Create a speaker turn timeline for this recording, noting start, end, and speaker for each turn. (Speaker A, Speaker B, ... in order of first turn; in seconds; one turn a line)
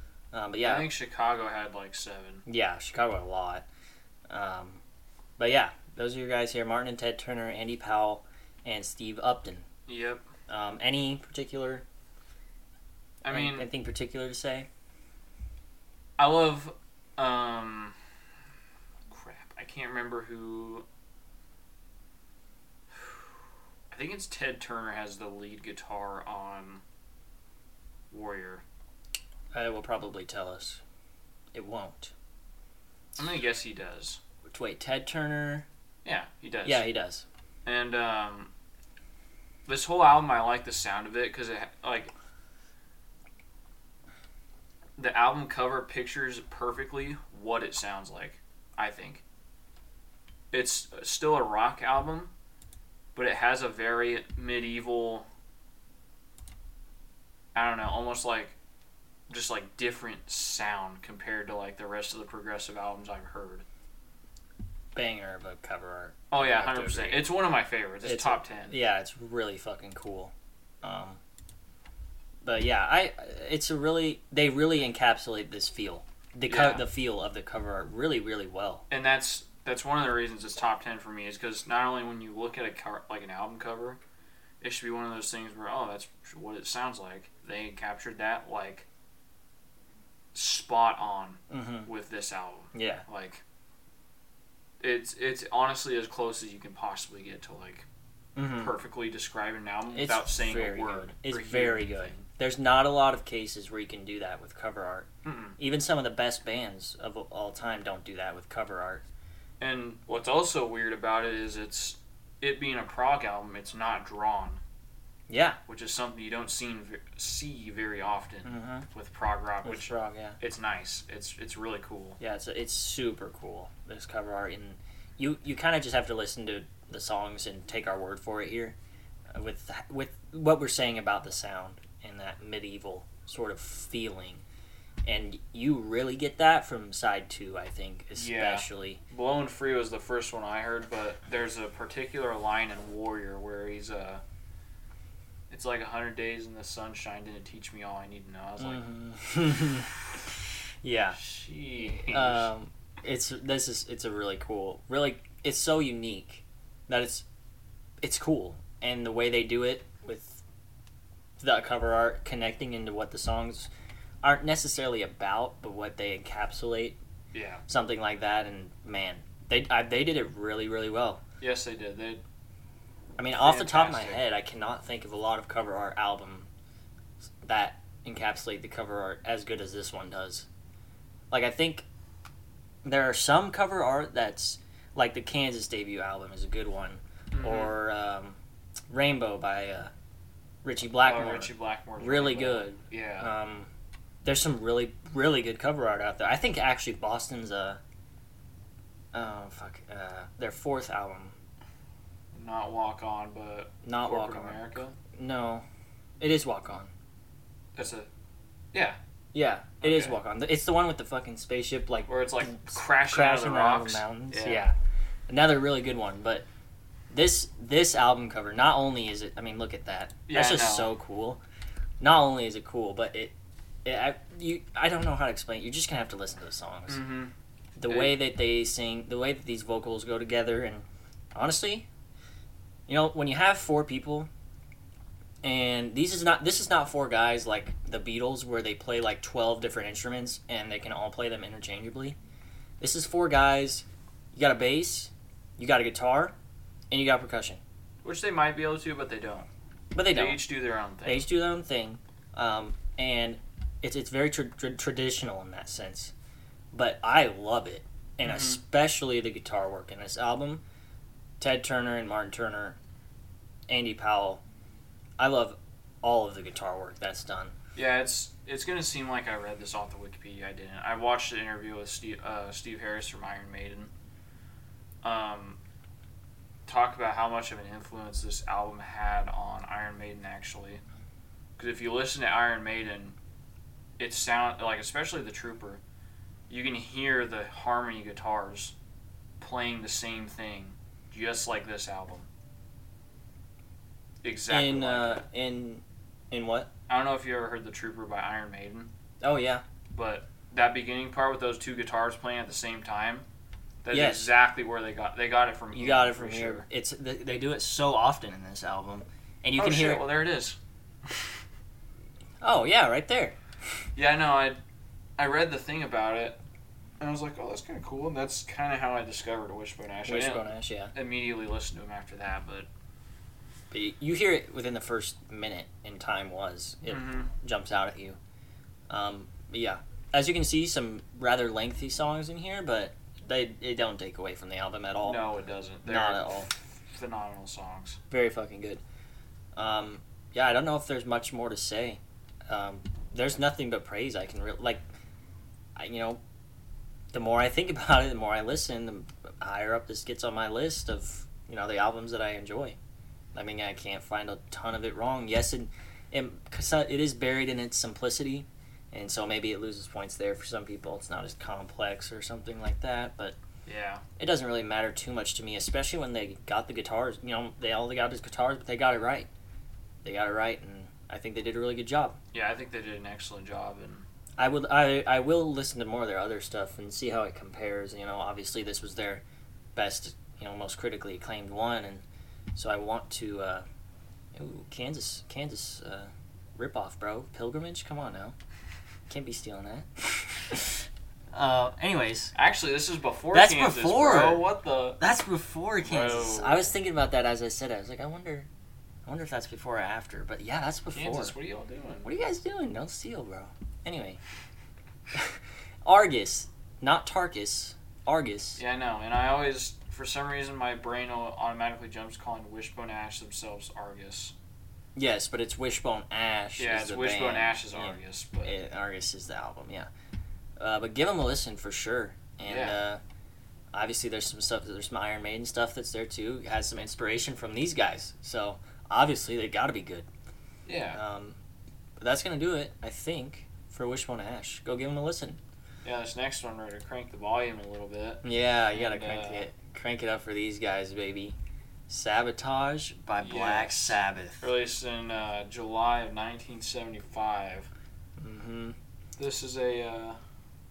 Speaker A: 0.3-0.9
Speaker B: 0.6-2.5
Speaker A: 2.5-3.7
Speaker A: 4.3-4.8
Speaker A: 5.4-9.7
Speaker B: 9.9-10.3
Speaker A: 10.5-11.8
Speaker B: 13.2-13.7
Speaker A: 13.3-14.7
Speaker B: 16.2-17.9
Speaker B: 19.1-20.9
Speaker B: 23.9-26.8
Speaker B: 28.1-28.6
Speaker A: 29.5-30.8
Speaker A: 31.5-32.1
Speaker B: 33.2-34.2
Speaker A: 34.5-35.7
Speaker B: 36.0-36.9
Speaker A: 36.6-37.2
Speaker B: 37.6-38.5
Speaker B: 39.7-42.1
Speaker B: 45.0-49.2
Speaker B: 50.5-52.3
Speaker B: 53.1-55.3
Speaker B: 57.5-58.6
Speaker B: 59.3-63.6
Speaker A: 64.9-67.3
Speaker B: 66.3-68.8
Speaker A: 68.0-70.3
Speaker A: 70.8-71.2
Speaker A: 72.4-78.8
Speaker B: 76.5-76.9
Speaker B: 78.9-84.0
Speaker B: 84.6-88.9
Speaker B: 90.3-93.4
Speaker A: 91.5-91.9
Speaker A: 92.7-93.0
Speaker B: 94.8-97.9
Speaker A: 98.4-98.7
Speaker B: 98.6-102.3
Speaker A: 99.9-109.0
Speaker B: 105.2-105.6
Speaker B: 109.6-114.6
Speaker A: 115.3-115.6
Speaker B: 115.7-122.2
Speaker A: 118.5-118.9
Speaker A: 119.6-120.4
Speaker A: 122.2-128.8
Speaker A: 129.3-134.4
Speaker A: 135.1-139.0
Speaker B: 138.2-144.2
Speaker B: 145.5-148.9
Speaker A: 148.6-150.0
Speaker A: 150.8-151.2
Speaker B: 151.2-152.5
Speaker A: 151.8-157.2
Speaker A: 158.0-160.4
Speaker A: 161.4-163.7
Speaker A: 164.2-167.0
Speaker B: 167.3-167.6
Speaker A: 167.7-171.2
Speaker B: 171.4-172.2
Speaker A: 173.2-176.5
Speaker B: 173.3-174.2
Speaker A: 177.4-180.5
Speaker A: 181.3-181.8
Speaker A: 182.8-188.4
Speaker B: 187.3-187.8
Speaker A: 188.9-189.9
Speaker A: 190.6-193.7
Speaker B: 191.0-193.3
Speaker A: 194.2-197.8
Speaker A: 199.1-201.3
Speaker B: 202.3-204.9
Speaker A: 203.8-205.7
Speaker A: 206.2-206.9
Speaker B: 207.8-208.1
Speaker B: 208.7-209.0
Speaker A: 209.3-214.8
Speaker B: 209.8-210.2
Speaker B: 212.1-214.7
Speaker A: 215.3-216.5
Speaker A: 217.1-221.4
Speaker B: 220.3-220.9
Speaker A: 222.0-223.3
Speaker A: 223.8-227.0
Speaker B: 226.9-227.3
Speaker A: 227.8-231.9
Speaker B: 227.9-228.2
Speaker A: 232.9-234.3
Speaker A: 235.4-242.2
Speaker A: 242.8-246.4
Speaker A: 246.9-247.6
Speaker B: 248.0-249.5
Speaker A: 249.9-250.4
Speaker B: 250.1-251.3
Speaker A: 251.1-256.1
Speaker A: 256.7-260.6
Speaker B: 258.2-258.6
Speaker A: 261.4-262.8
Speaker A: 263.7-264.4
Speaker A: 265.2-267.6
Speaker B: 267.8-273.9
Speaker B: 275.0-275.6
Speaker B: 276.7-280.8
Speaker B: 281.6-283.2
Speaker B: 284.0-285.8
Speaker B: 286.5-288.8
Speaker B: 289.4-292.3
Speaker B: 294.2-295.2
Speaker A: 294.5-296.7
Speaker B: 296.9-298.9
Speaker A: 299.2-299.6
Speaker B: 299.9-303.3
Speaker B: 303.8-306.7
Speaker A: 303.9-304.3
Speaker A: 305.7-310.0
Speaker B: 309.6-311.3
Speaker A: 312.4-313.4
Speaker B: 314.0-314.6
Speaker B: 315.2-316.4
Speaker B: 317.0-322.7
Speaker A: 320.1-320.9
Speaker A: 323.7-328.2
Speaker B: 326.9-327.3
Speaker A: 328.9-335.3
Speaker B: 335.0-338.0
Speaker A: 335.9-336.5
Speaker A: 338.1-338.8
Speaker A: 339.6-344.8
Speaker A: 345.8-346.2
Speaker A: 347.1-352.8
Speaker A: 353.3-363.4
Speaker B: 363.7-364.0
Speaker A: 364.2-369.3
Speaker A: 370.0-372.2
Speaker B: 372.3-374.1
Speaker A: 374.4-379.2
Speaker A: 379.8-383.6
Speaker A: 384.3-388.4
Speaker A: 389.1-392.3
Speaker B: 392.4-395.0
Speaker A: 393.3-394.5
Speaker A: 395.0-398.5
Speaker B: 395.8-396.8
Speaker A: 399.1-401.4
Speaker B: 400.9-402.1
Speaker A: 402.0-404.2
Speaker A: 405.1-408.6
Speaker B: 408.6-414.4
Speaker A: 415.0-419.9
Speaker B: 416.6-418.5
Speaker A: 420.6-423.0
Speaker B: 422.5-422.8
Speaker A: 423.7-430.1
Speaker B: 430.7-431.0
Speaker A: 430.9-431.4
Speaker A: 432.0-435.4
Speaker B: 435.8-439.5
Speaker A: 438.2-441.4
Speaker A: 441.9-444.5
Speaker B: 443.2-447.7
Speaker A: 448.2-448.8
Speaker B: 449.2-450.2